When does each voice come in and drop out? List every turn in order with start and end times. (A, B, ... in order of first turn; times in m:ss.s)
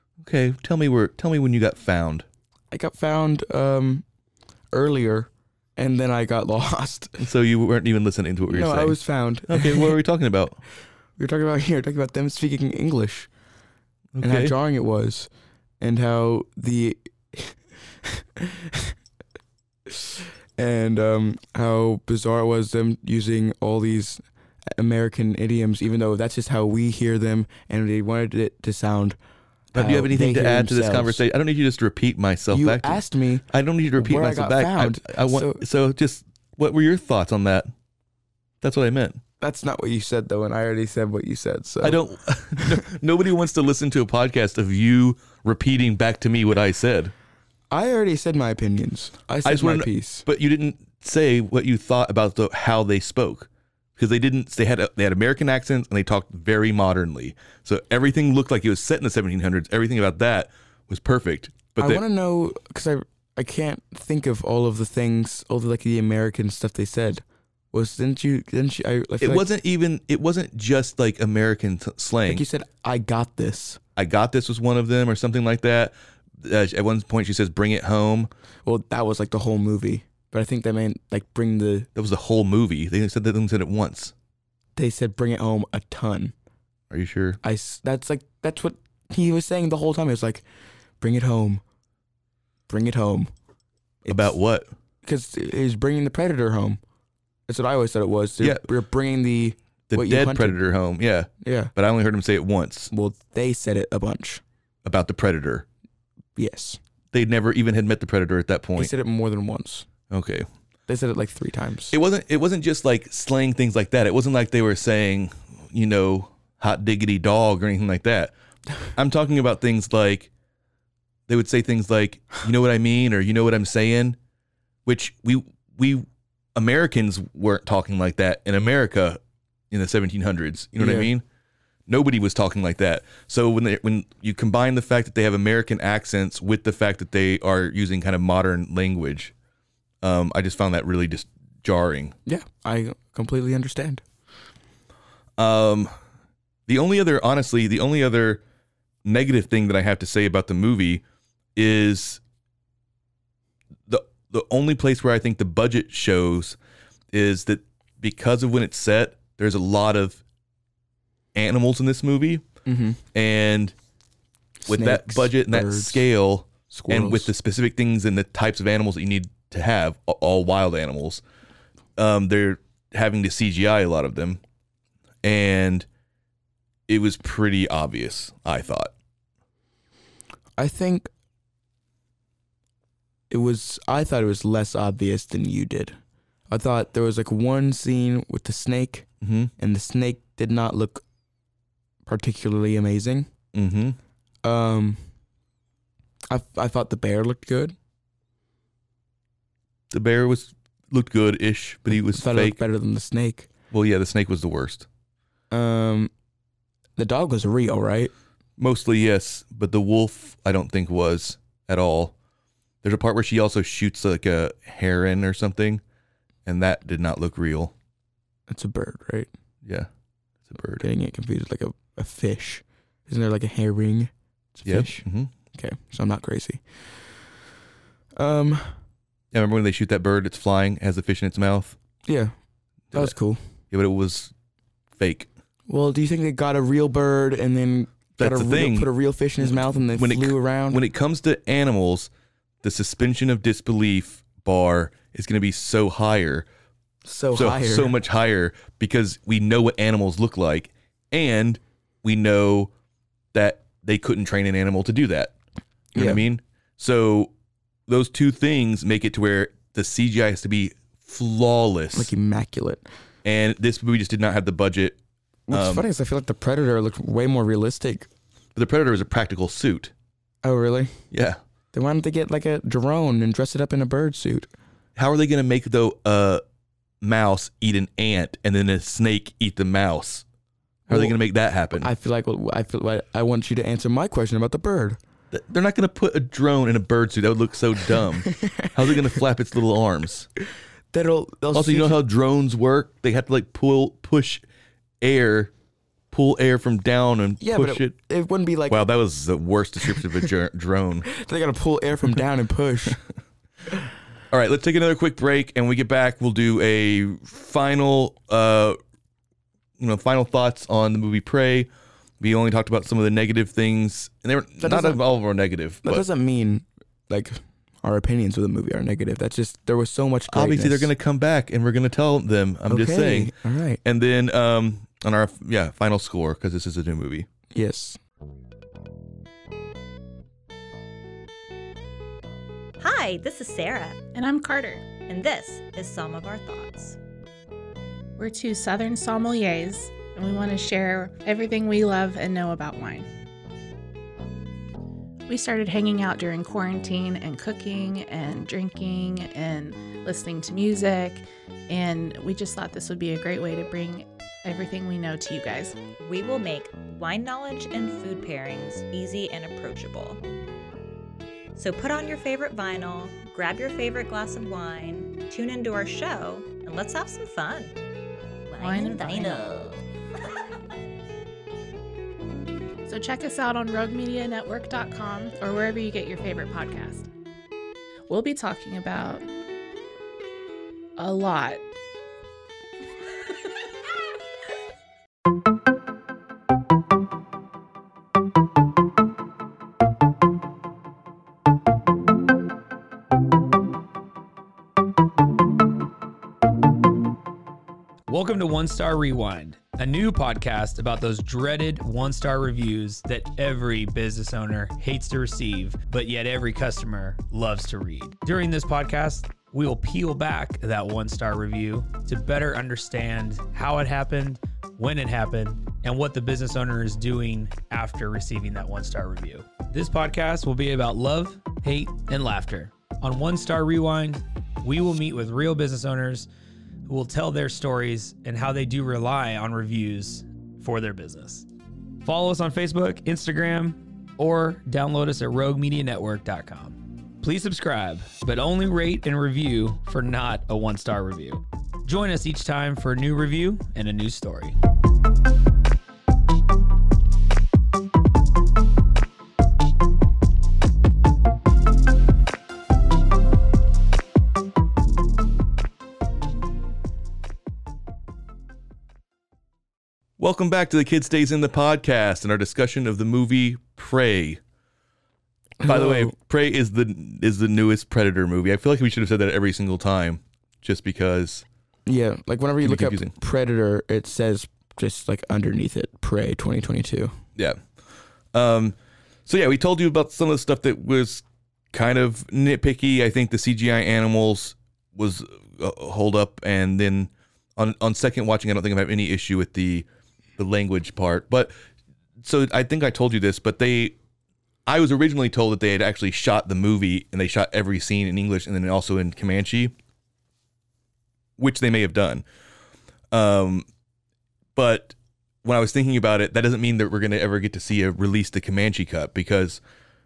0:00.2-0:02.2 A
0:02.7-0:04.0 B
0:04.7-0:07.2 B
0:07.2-0:09.0 A
0:08.5-0:10.0 B
0:09.5-0:10.6 A
0:11.2-0:13.3 B
0:14.2-0:14.6 A
0:14.2-0:15.3 B
0:15.8-0:18.9 B
0:19.9-0:24.2 B
0:24.8-0:29.2 B
0:29.7-0:37.7 A
0:29.8-0:31.2 B
0:32.5-0:35.6 B
0:38.6-0:39.2 A
0:39.4-0:42.0 B
0:41.8-0:47.1 A
0:42.6-0:42.8 B
0:47.7-0:50.2 B
0:49.4-1:02.0 A
1:01.8-1:09.5 B
1:09.2-1:12.4 A
1:12.3-1:13.8 B
1:14.0-1:18.3 A
1:18.7-1:21.9 B
1:22.0-1:24.1 A
1:24.8-1:26.3 B
1:26.9-1:27.4 A
1:27.4-1:30.4 B
1:31.0-1:31.6 B
1:32.7-1:33.3 B
1:34.0-1:34.4 B
1:34.1-1:34.7 A
1:35.0-1:36.8 B
1:37.5-1:40.6 B
1:38.4-1:38.7 A
1:39.9-1:42.9 A
1:41.4-1:41.7 B
1:42.9-1:44.4 B
1:44.8-1:45.6 A
1:46.4-1:46.8 B
1:47.1-1:48.9 A
1:48.8-1:49.9 B
1:50.1-1:50.5 A
1:50.9-1:52.0 B
1:51.9-1:58.3 A
1:59.0-2:00.3 A
2:01.3-2:04.2 A
2:04.9-2:09.2 A
2:09.7-2:11.2 A
2:10.8-2:11.1 B
2:11.9-2:19.3 A
2:20.0-2:22.2 A
2:22.3-2:24.0 B
2:25.4-2:25.9 A
2:26.7-2:28.4 A
2:29.0-2:31.0 A
2:31.6-2:32.2 A
2:33.9-2:36.6 A
2:37.1-2:40.2 A
2:41.3-2:42.4 A
2:42.7-2:43.0 B
2:43.1-2:43.7 A
2:44.7-2:46.1 B
2:44.7-2:51.2 A
2:46.7-2:47.3 B
2:52.0-2:54.4 A
2:55.2-2:55.9 A
2:56.9-2:58.9 A
3:00.6-3:01.1 B
3:03.3-3:06.0 B
3:06.5-3:09.1 B
3:09.2-3:09.5 A
3:09.6-3:11.0 B
3:12.1-3:13.3 B
3:13.5-3:14.0 A
3:14.4-3:15.0 B
3:16.3-3:17.8 B
3:19.9-3:22.6 A
3:21.9-3:23.5 B
3:23.7-3:24.9 A
3:25.5-3:26.1 B
3:27.0-3:28.1 B
3:28.6-3:32.1 A
3:32.8-3:35.8 A
3:36.5-3:37.7 A
3:38.5-3:39.3 B
3:39.6-3:39.9 A
3:40.4-3:40.8 A
3:40.8-3:46.6 B
3:44.6-3:45.3 A
3:48.2-3:48.8 B
3:49.3-3:51.8 A
3:52.1-3:52.3 B
3:52.9-3:53.4 B
3:53.7-3:54.3 A
3:55.0-3:55.3 A
3:55.7-4:00.8 B
3:58.2-4:02.1 A
4:02.6-4:06.5 A
4:07.0-4:08.0 B
4:07.3-4:12.7 A
4:13.3-4:15.3 A
4:16.0-4:16.2 B
4:16.0-4:17.3 A
4:17.9-4:22.1 A
4:21.9-4:22.9 B
4:23.2-4:25.0 A
4:25.5-4:28.1 B
4:25.5-4:25.9 A
4:28.6-4:29.9 A
4:30.4-4:31.0 B
4:31.1-4:31.4 A
4:31.7-4:34.5 B
4:35.0-4:36.4 A
4:37.0-4:40.2 A
4:40.9-4:41.2 B
4:40.9-4:41.9 A
4:41.8-4:45.0 B
4:45.3-4:50.3 A
4:48.4-4:48.7 B
4:50.9-4:52.0 B
4:51.5-4:54.4 A
4:55.0-4:55.5 A
4:56.1-4:58.0 A
4:57.4-4:58.8 B
4:58.7-5:01.1 A
5:01.1-5:03.0 B
5:04.3-5:08.8 A
5:09.8-5:11.7 A
5:12.2-5:16.0 A
5:14.6-5:15.0 B
5:15.8-5:20.9 B
5:20.3-5:27.3 A
5:22.7-5:23.8 B
5:27.5-5:28.0 B
5:32.8-5:34.0 C
5:34.1-5:34.9 D
5:35.0-5:37.0 C
5:38.2-5:43.1 D
5:45.3-5:55.8 D
5:56.0-6:00.2 C
6:01.6-6:07.8 C
6:08.5-6:09.8 C
6:08.6-6:09.5 D
6:12.9-6:17.1 D
6:18.1-6:19.2 D
6:21.0-6:21.6 D
6:38.1-7:06.3 E
7:06.8-7:11.5 E
7:12.0-7:24.6 E
7:40.2-7:44.4 A
7:45.6-7:46.2 B
7:45.6-7:51.4 A
7:51.9-7:57.1 B
7:52.6-7:53.2 A
7:58.3-8:11.5 A
8:12.2-8:14.0 A
8:14.7-8:19.7 A
8:21.4-8:22.2 A
8:23.1-8:23.7 A
8:24.6-8:29.6 A